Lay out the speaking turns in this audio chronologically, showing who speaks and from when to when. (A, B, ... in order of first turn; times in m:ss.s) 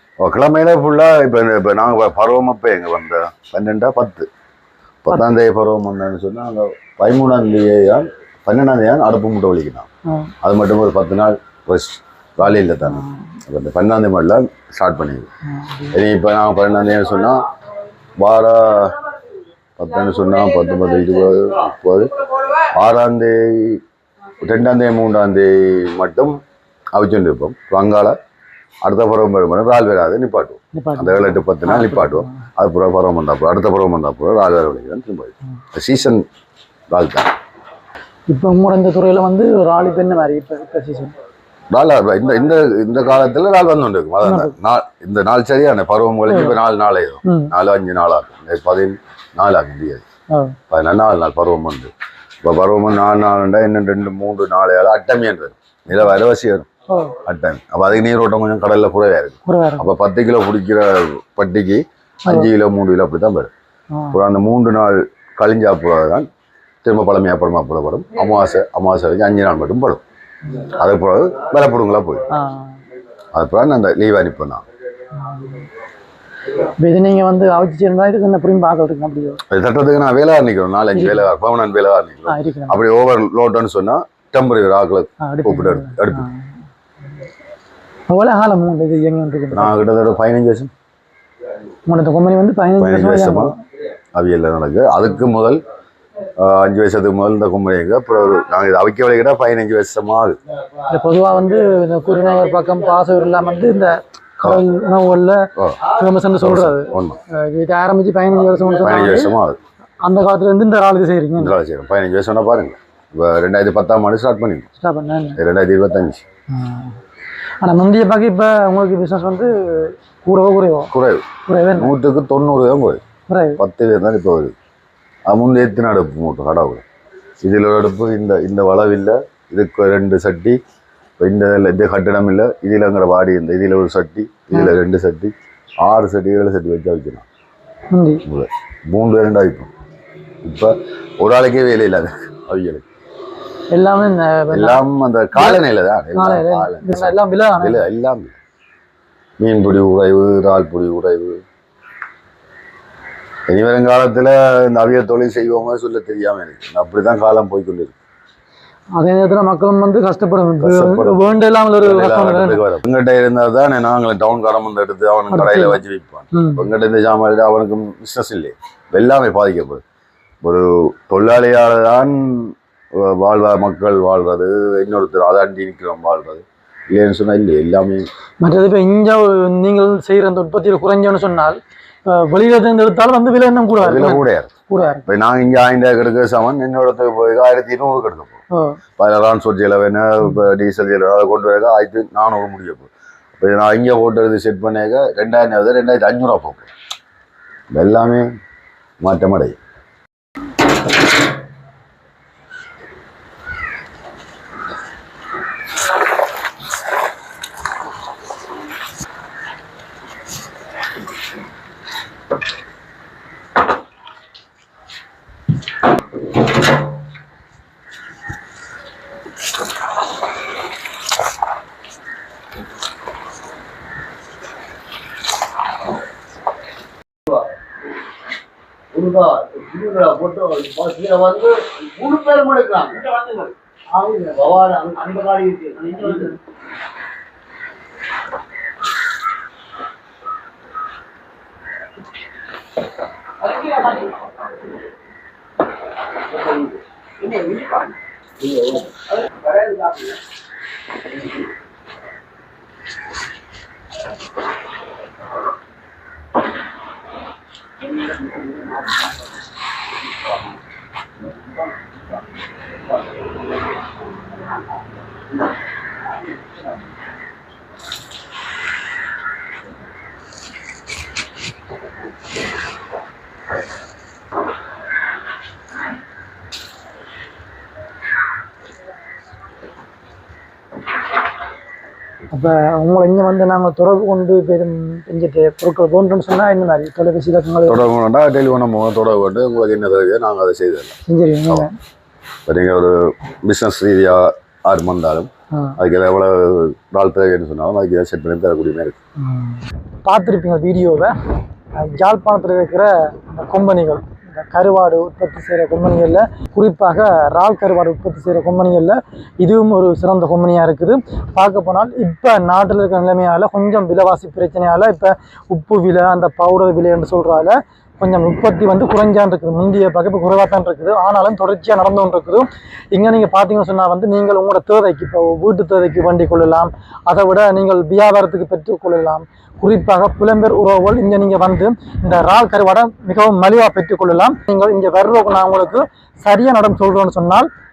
0:00.2-0:04.3 A
0:05.0-0:09.9 A
0:10.1-0:10.3 B
0:10.4-0:15.3 A
0:12.7-0:13.4 B
0:15.5-0:16.0 B
0:15.9-0:17.4 A
0:18.2-0:19.0 A
0:19.8-0:23.8 A
0:24.4-0:26.4 A
0:26.9-0:28.2 A
0:28.8-0:36.2 A
0:30.7-0:32.4 B
0:36.9-0:37.3 A
0:38.3-0:41.1 B
0:41.7-0:50.0 A
0:44.2-0:44.5 B
0:46.3-0:46.6 B
0:47.2-0:47.5 B
0:50.3-0:50.6 B
0:50.7-0:51.9 A
0:52.4-0:56.7 A
0:56.9-0:57.2 B
0:57.2-1:03.5 A
0:59.4-0:59.9 B
1:03.9-1:04.2 B
1:04.1-1:06.3 A
1:06.8-1:10.0 A
1:10.6-1:12.2 A
1:12.3-1:12.8 B
1:13.3-1:14.6 A
1:15.1-1:15.6 B
1:16.5-1:19.4 B
1:19.5-1:26.2 A
1:20.9-1:21.3 B
1:22.3-1:22.8 B
1:25.2-1:26.5 B
1:28.1-1:29.7 B
1:29.5-1:30.7 A
1:31.9-1:33.6 B
1:32.8-1:33.5 A
1:34.1-1:35.6 A
1:36.4-1:40.4 A
1:40.8-1:49.3 B
1:46.4-1:47.2 A
1:48.8-1:49.6 A
1:50.0-1:51.6 B
1:51.4-1:54.6 A
1:54.8-1:55.4 B
1:55.4-1:56.2 A
1:56.5-1:57.0 B
1:57.6-2:00.9 B
2:00.9-2:01.2 A
2:01.4-2:01.9 B
2:01.8-2:03.0 A
2:03.3-2:03.6 B
2:03.6-2:04.5 A
2:05.3-2:06.8 A
2:07.4-2:10.6 A
2:11.2-2:17.2 A
2:17.9-2:18.2 B
2:18.2-2:19.7 A
2:20.4-2:22.8 A
2:23.7-2:24.8 B
2:24.5-2:28.4 A
2:25.3-2:25.6 B
2:26.1-2:27.8 B
2:29.4-2:31.4 A
2:33.5-2:38.0 A
2:39.0-2:42.6 B
2:40.6-2:41.2 A
2:41.8-2:49.8 A
2:45.3-2:45.8 B
2:46.3-2:46.7 B
2:50.4-2:58.1 A
2:58.4-3:05.0 B
3:03.8-3:04.5 A
3:05.0-3:08.4 A
3:08.5-3:08.8 B
3:09.0-3:16.7 A
3:17.7-3:18.3 A
3:19.0-3:19.6 A
3:49.1-3:51.5 C
3:52.1-3:53.0 C
3:54.3-3:55.7 C
4:42.3-4:47.8 B
4:47.6-4:50.9 A
4:51.0-4:51.7 B
4:52.5-4:59.0 A
4:55.5-4:55.8 B
4:59.2-5:01.1 B
5:01.8-5:37.5 B